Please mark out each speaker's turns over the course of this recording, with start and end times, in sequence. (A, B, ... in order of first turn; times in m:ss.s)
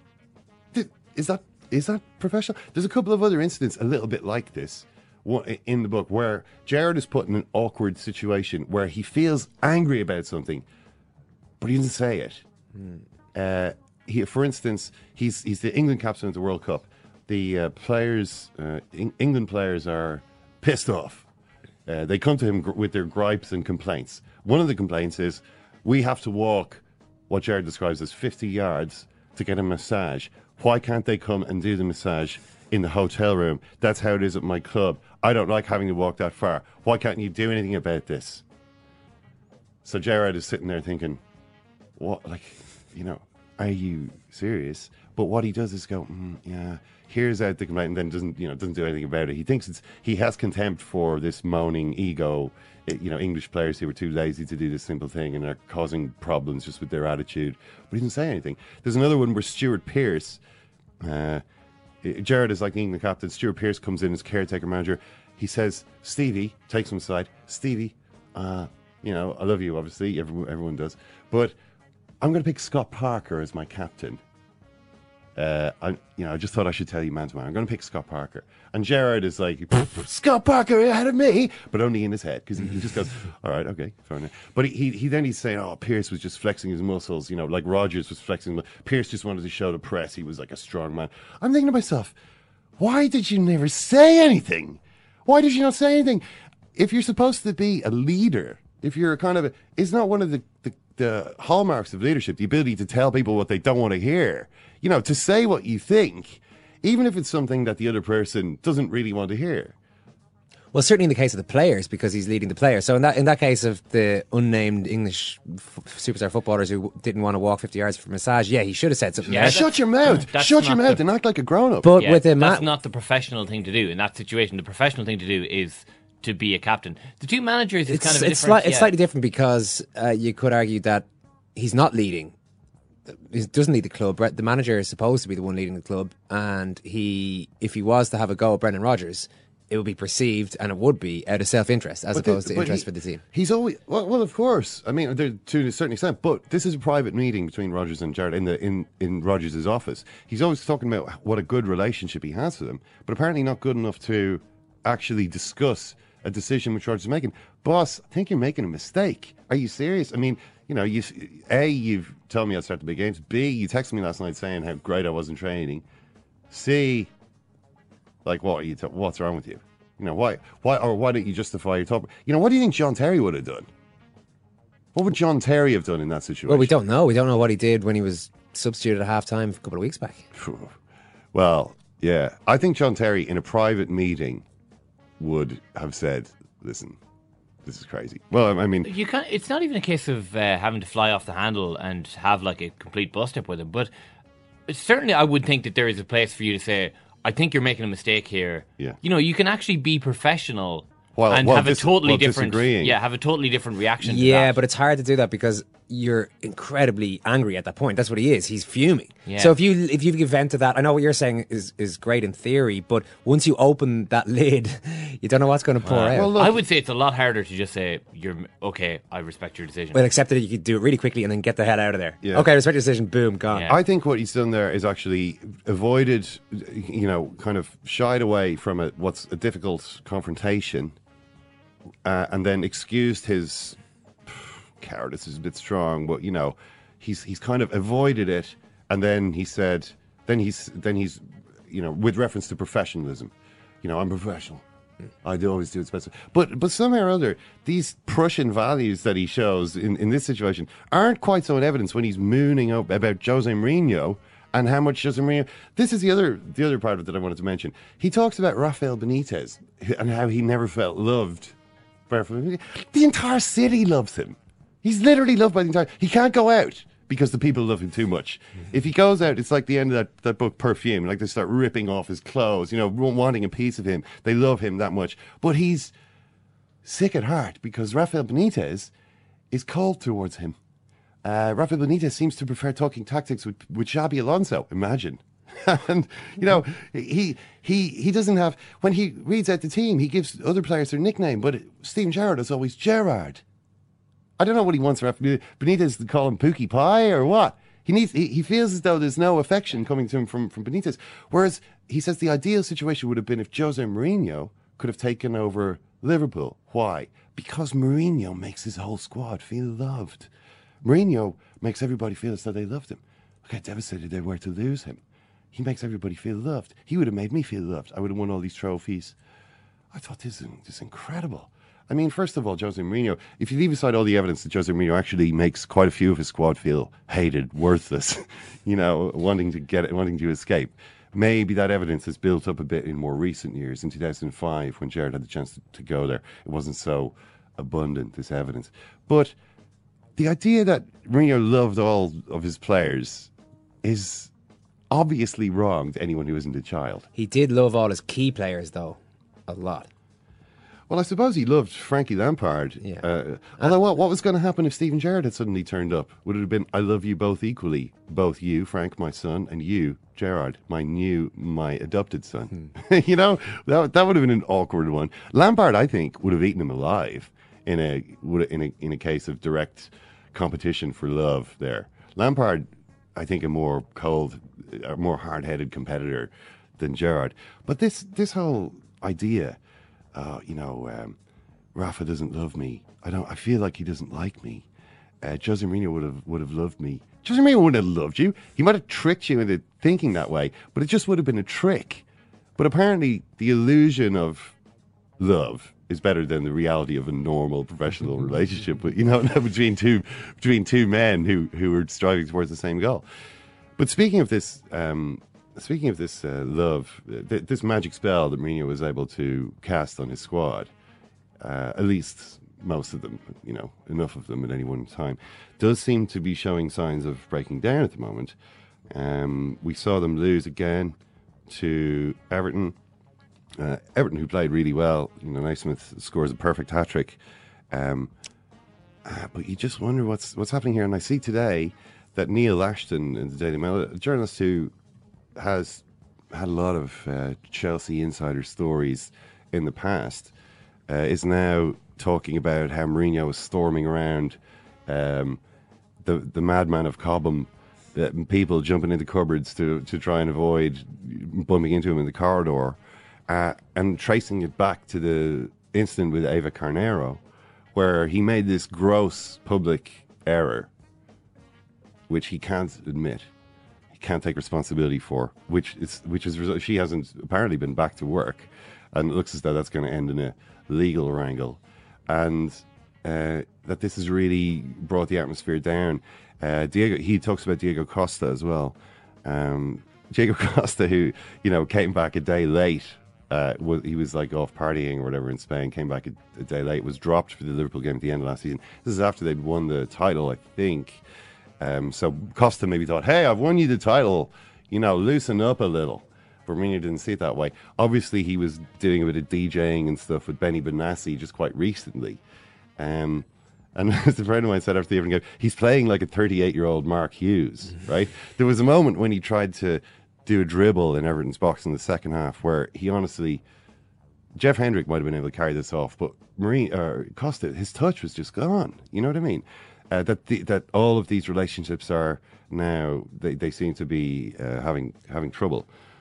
0:00.7-0:10.6 A
0:11.6-0:12.4 A
0:13.3-0:21.3 A
0:21.9-0:38.4 A
0:39.8-0:41.2 A
0:42.0-1:00.4 A
1:01.0-1:01.4 A
1:02.0-1:11.6 A
1:12.2-1:14.2 A
1:15.4-1:32.2 A
1:32.8-1:36.2 A
1:36.8-1:49.8 A
1:50.7-1:59.6 B
1:59.3-2:01.0 C
1:59.3-2:02.0 A
2:01.8-2:02.7 B
2:02.0-2:08.9 C
2:07.9-2:12.3 B
2:13.1-2:23.2 B
2:22.1-2:45.8 A
2:46.5-2:47.1 A
2:48.2-2:53.7 A
2:54.9-2:56.8 A
2:56.5-3:00.2 B
3:00.4-3:00.8 A
3:01.3-3:04.4 A
3:05.2-3:07.0 A
3:07.6-3:08.9 A
3:08.8-3:13.9 C
3:14.7-3:24.6 C
3:21.2-3:23.0 A
3:24.0-3:36.3 B
3:29.3-3:29.5 C
3:35.8-3:40.0 C
3:36.1-3:36.6 A
3:39.9-3:43.7 B
3:42.2-3:42.5 A
3:43.7-3:51.0 A
3:52.0-4:04.6 A
4:05.2-4:21.6 A
4:22.1-4:35.9 A
4:36.8-4:38.9 A
4:39.5-4:40.6 A
4:41.2-4:53.4 A
4:54.4-5:10.3 A
5:10.8-5:15.0 A
5:15.5-5:19.2 A
5:19.9-5:39.4 A
5:40.2-5:43.3 A
5:43.8-5:44.3 A
5:44.9-5:47.1 A
5:47.2-5:49.9 B
5:50.9-6:19.6 A
6:20.1-6:21.2 A
6:21.8-6:24.7 A
6:25.2-6:32.0 A
6:32.6-6:34.6 A
6:35.2-6:43.0 A
6:43.8-6:50.7 A
6:51.4-6:58.4 A
6:58.9-7:01.0 A
7:01.5-7:02.8 A
7:03.6-7:07.2 A
7:07.7-7:08.1 A
7:09.0-7:14.7 A
7:15.4-7:20.3 A
7:20.9-7:25.4 A
7:26.0-7:37.2 A
7:37.7-7:40.7 A
7:42.1-7:43.3 A
7:43.9-8:11.0 A
8:11.6-8:22.2 A
8:22.8-8:33.4 A
8:34.4-8:45.7 A